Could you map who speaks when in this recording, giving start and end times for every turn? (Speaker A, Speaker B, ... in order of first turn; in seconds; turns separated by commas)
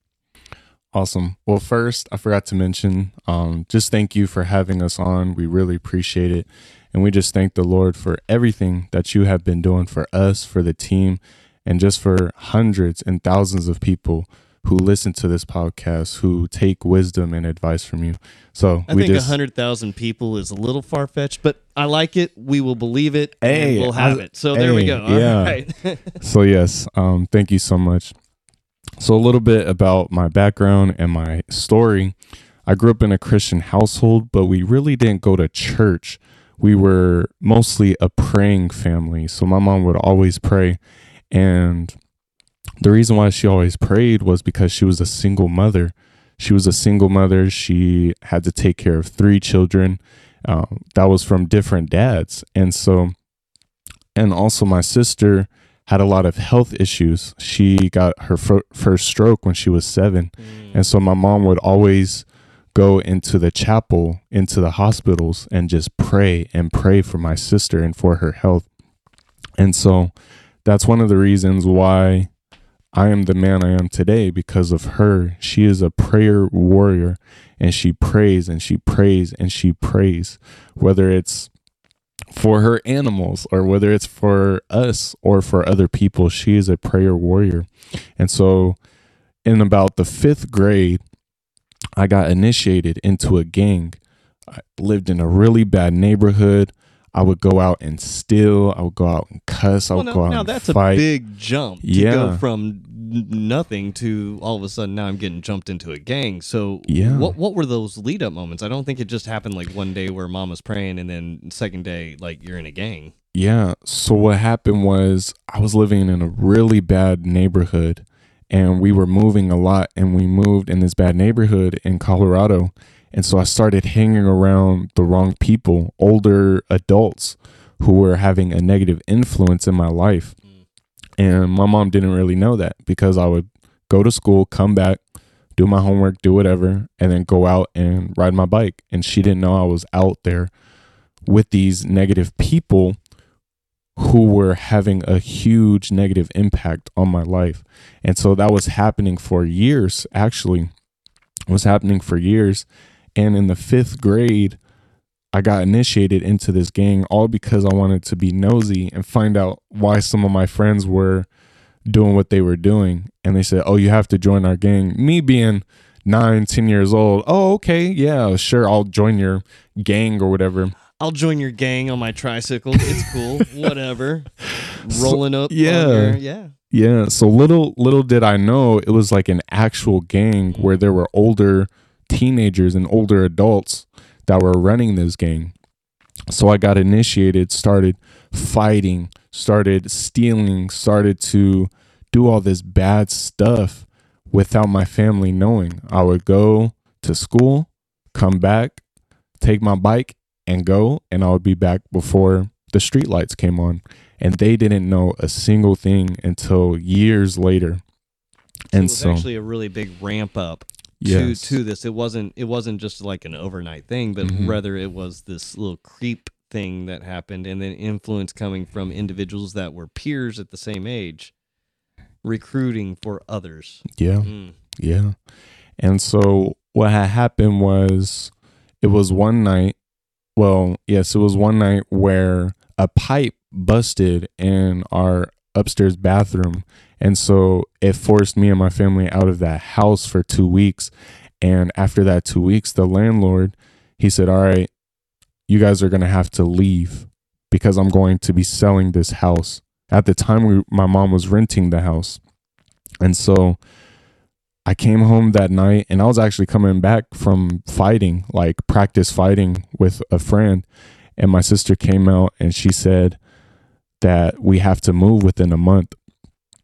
Speaker A: 0.9-19.4, Speaker B: 18.9-26.2, Speaker A: 23.4-25.6, Speaker A: 26.1-28.1, Speaker A: 29.0-40.8, Speaker A: 41.3-42.0, Speaker A: 42.8-53.1, Speaker A: 54.1-68.7, Speaker B: 60.4-60.9, Speaker A: 69.6-70.1, Speaker A: 70.7-72.3, Speaker A: 72.9-81.5, Speaker A: 82.3-88.8, Speaker A: 89.5-91.0, Speaker A: 92.0-94.0, Speaker A: 94.5-101.0, Speaker B: 99.9-113.1, Speaker A: 101.8-102.4, Speaker A: 106.9-107.3, Speaker A: 113.3-130.3, Speaker A: 131.2-135.0, Speaker A: 135.6-140.5, Speaker A: 141.3-143.0, Speaker A: 144.0-150.7, Speaker A: 151.5-154.6, Speaker A: 155.3-161.3, Speaker A: 161.9-170.8, Speaker B: 171.0-176.5, Speaker A: 174.9-176.2, Speaker A: 176.7-185.5, Speaker A: 186.3-198.8, Speaker A: 199.4-207.8, Speaker A: 208.7-209.3, Speaker B: 208.7-221.3, Speaker A: 211.0-211.6, Speaker A: 214.2-214.6, Speaker B: 222.2-224.6, Speaker A: 224.0-225.2, Speaker A: 225.8-229.8, Speaker A: 230.4-240.9, Speaker A: 241.4-244.7, Speaker A: 245.5-252.2, Speaker A: 253.0-253.6, Speaker A: 254.7-260.7, Speaker A: 261.2-263.2, Speaker A: 264.0-266.0